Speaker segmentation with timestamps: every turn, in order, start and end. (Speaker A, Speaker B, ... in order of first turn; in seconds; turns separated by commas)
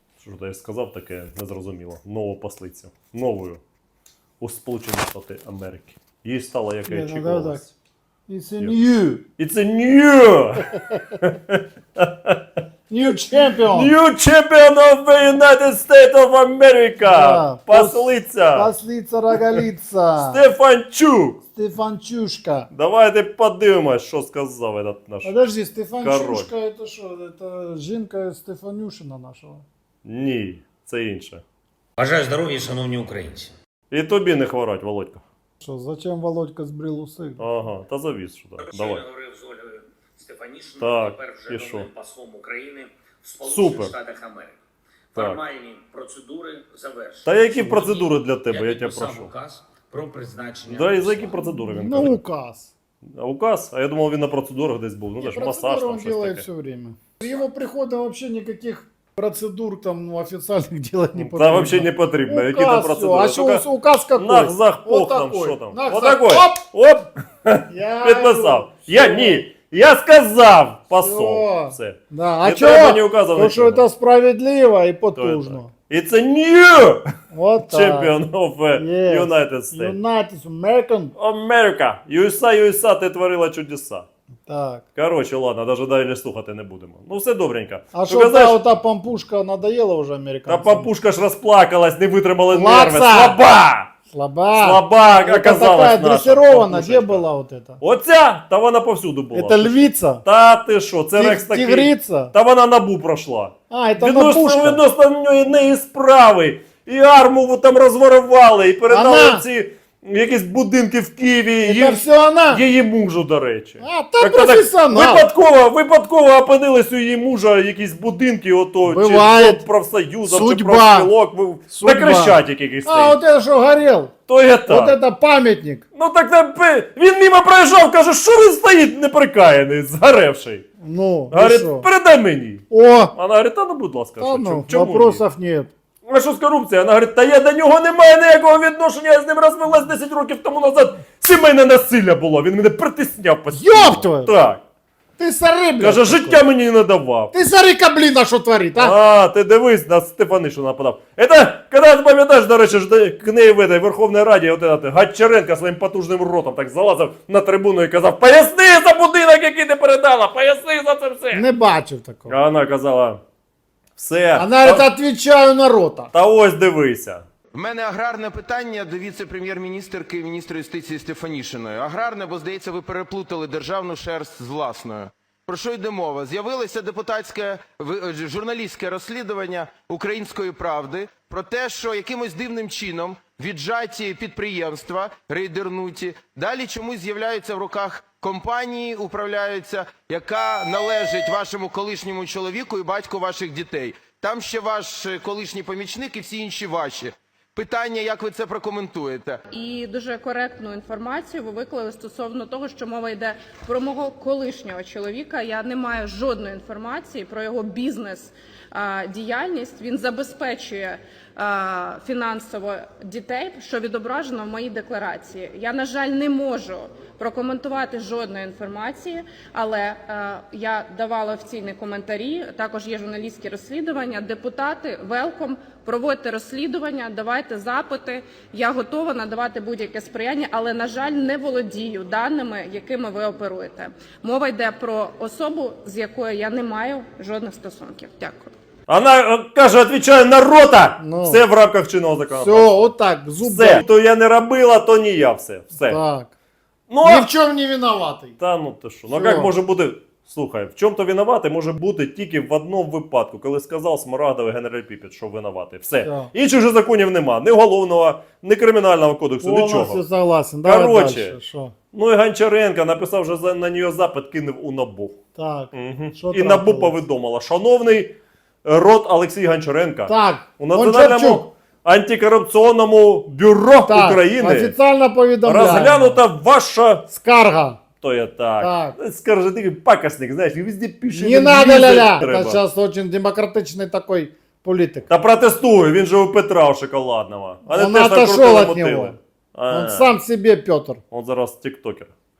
Speaker A: 0.2-3.6, Speaker A: 4.4-7.7, Speaker B: 6.9-7.7, Speaker B: 8.3-9.2, Speaker A: 9.4-12.4, Speaker B: 12.9-13.9, Speaker A: 13.6-18.7, Speaker B: 17.0-20.4, Speaker A: 20.2-21.4, Speaker B: 21.5-22.7, Speaker A: 22.7-25.3, Speaker B: 25.2-29.6, Speaker A: 26.0-26.5, Speaker A: 30.0-31.4, Speaker C: 32.0-33.5, Speaker A: 33.9-35.2, Speaker B: 35.6-37.4, Speaker A: 37.4-39.0, Speaker C: 38.6-44.5, Speaker A: 40.8-41.9, Speaker A: 43.4-43.9, Speaker C: 45.1-51.4, Speaker A: 45.1-45.4, Speaker A: 47.2-49.3, Speaker A: 50.6-52.2, Speaker B: 51.4-52.7, Speaker A: 53.0-56.5, Speaker B: 55.2-66.6, Speaker A: 61.1-73.8, Speaker B: 67.7-69.4, Speaker B: 70.9-75.7, Speaker A: 75.1-77.1, Speaker B: 77.3-78.1, Speaker A: 77.7-80.0, Speaker B: 78.7-81.1, Speaker A: 81.2-84.1, Speaker B: 84.5-84.8, Speaker A: 84.9-88.6, Speaker B: 87.9-90.9, Speaker A: 90.5-93.9, Speaker B: 92.5-93.4, Speaker B: 94.1-97.8, Speaker A: 94.5-97.2, Speaker A: 97.8-123.2, Speaker B: 99.3-100.2, Speaker B: 101.1-102.3, Speaker B: 103.7-104.8, Speaker B: 108.9-109.5, Speaker B: 111.6-112.7, Speaker B: 113.8-115.3, Speaker B: 118.8-119.6, Speaker B: 120.2-121.1, Speaker B: 121.7-124.1, Speaker A: 124.3-125.0, Speaker B: 124.7-125.8, Speaker A: 125.9-130.6, Speaker B: 130.8-131.9, Speaker A: 131.3-135.2, Speaker B: 132.7-133.1, Speaker B: 134.2-135.7, Speaker A: 136.1-144.6, Speaker B: 143.5-144.3, Speaker B: 145.2-146.4, Speaker A: 145.8-147.3, Speaker B: 147.3-148.9, Speaker A: 148.8-161.4, Speaker B: 161.3-162.3, Speaker A: 162.3-163.2, Speaker A: 163.9-164.8, Speaker B: 164.3-166.1, Speaker A: 166.1-167.2, Speaker D: 167.5-199.4, Speaker E: 199.5-238.5, Speaker A: 238.9-242.9, Speaker B: 241.0-241.4, Speaker B: 242.3-243.8, Speaker A: 243.4-246.0, Speaker B: 245.7-246.3, Speaker A: 246.9-247.3, Speaker B: 247.0-248.4, Speaker A: 248.4-260.0, Speaker B: 249.1-249.5, Speaker B: 256.0-256.3, Speaker B: 259.4-261.7, Speaker A: 260.6-261.4, Speaker A: 261.9-265.2, Speaker B: 265.3-267.0, Speaker A: 265.7-274.8, Speaker B: 270.1-271.4, Speaker B: 273.8-276.2, Speaker A: 275.4-277.1, Speaker B: 277.1-277.8, Speaker A: 278.0-282.6, Speaker B: 278.6-279.0, Speaker B: 281.1-285.1, Speaker A: 285.1-290.1, Speaker B: 287.6-289.2, Speaker B: 289.7-291.0, Speaker A: 291.1-292.1